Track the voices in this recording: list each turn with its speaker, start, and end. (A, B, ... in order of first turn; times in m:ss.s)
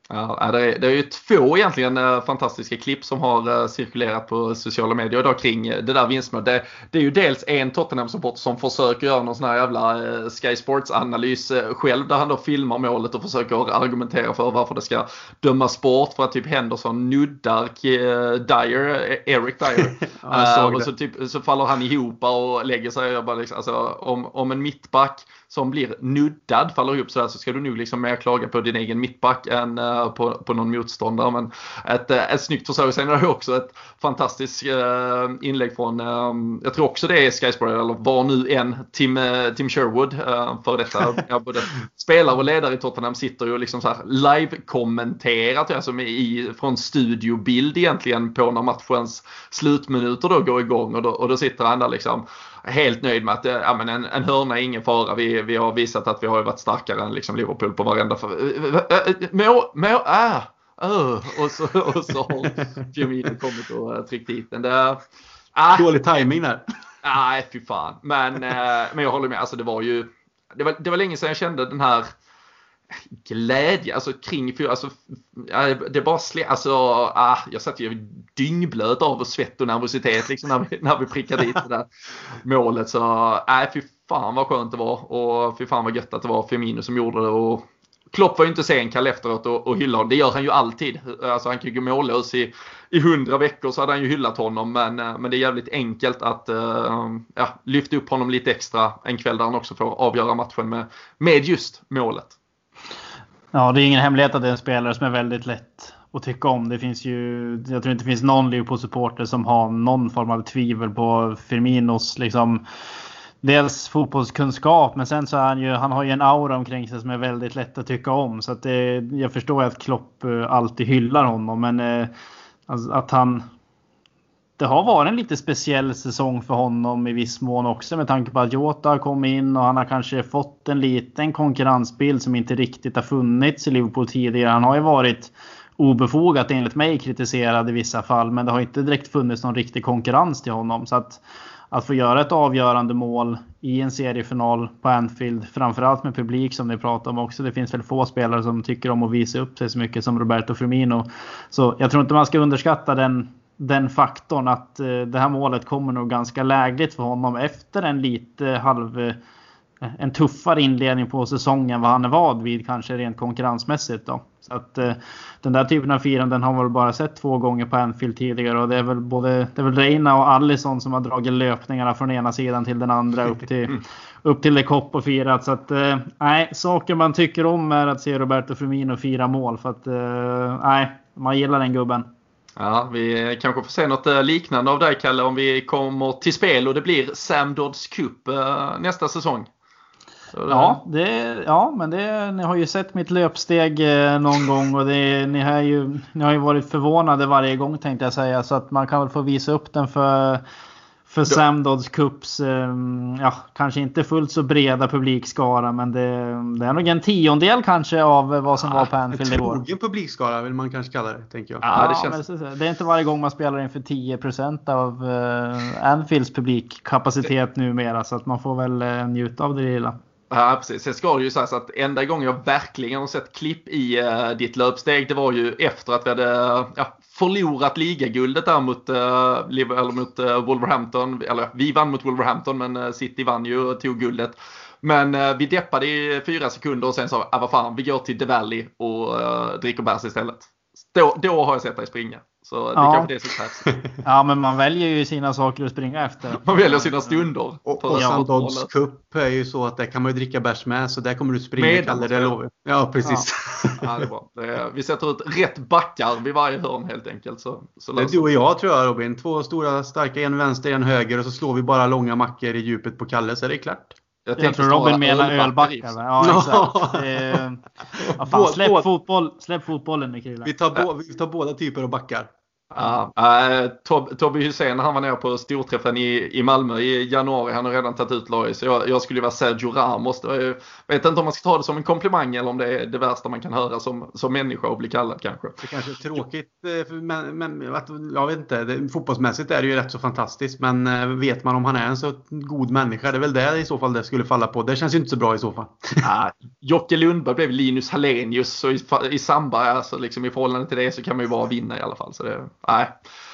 0:00.1-1:05.0 A
0:20.2-0:20.9 B
1:05.5-1:05.9 A
1:05.7-1:06.6 B
1:07.0-1:12.1 A
1:13.2-1:42.4 A
1:43.5-1:52.6 C
1:53.4-2:02.1 C
2:02.7-2:03.4 C
2:04.6-2:39.2 C
2:39.8-3:02.1 C
3:02.6-3:09.5 A
3:10.3-3:10.8 A
3:10.5-3:20.4 C
3:21.1-3:29.6 C
3:29.1-3:31.8 B
3:31.6-3:32.2 A
3:31.7-3:40.0 C
3:40.3-4:03.7 A
4:02.8-4:03.1 C
4:04.0-4:07.2 C
4:06.4-4:08.7 A
4:07.6-4:13.9 B
4:11.6-4:12.4 A
4:13.8-4:18.2 A
4:18.0-4:23.9 B
4:24.2-4:26.0 A
4:24.4-4:30.5 C
4:26.2-4:27.4 B
4:28.2-4:28.9 B
4:30.4-4:32.3 B
4:32.7-4:45.7 A
4:45.6-4:56.0 B
4:56.0-5:02.9 A